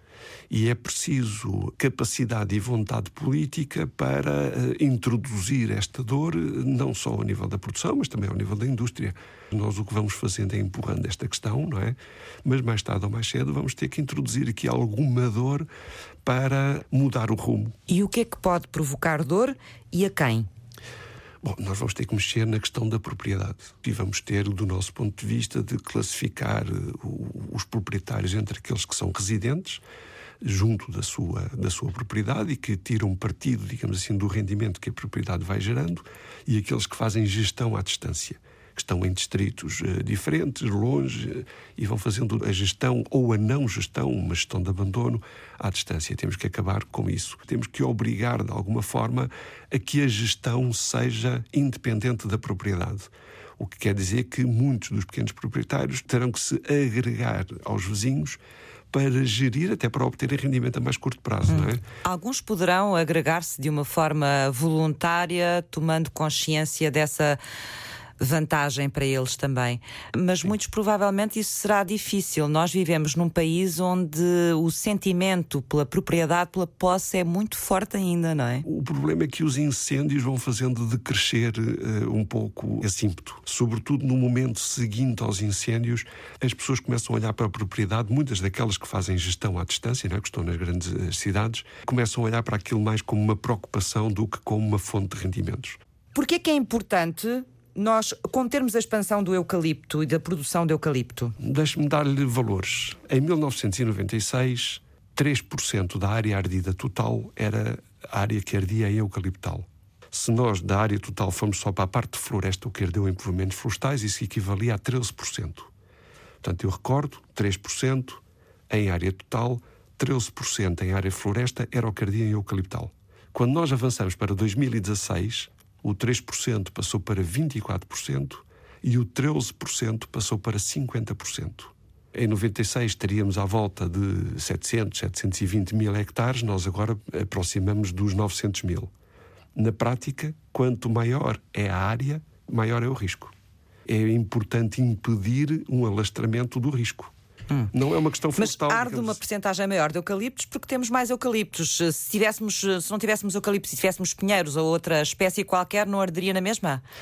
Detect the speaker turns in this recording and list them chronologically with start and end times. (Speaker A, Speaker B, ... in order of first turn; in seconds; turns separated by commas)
Speaker A: 0.5-15.7, Speaker A: 16.2-17.7, Speaker B: 17.9-20.5, Speaker A: 21.4-29.8, Speaker A: 30.4-58.4, Speaker A: 58.9-61.8, Speaker B: 61.5-67.4, Speaker B: 68.2-78.6, Speaker A: 78.6-95.8, Speaker B: 96.1-101.3, Speaker A: 101.4-115.7, Speaker A: 116.4-138.9, Speaker A: 139.5-143.3, Speaker A: 143.9-147.1, Speaker A: 147.7-149.2, Speaker B: 148.3-156.8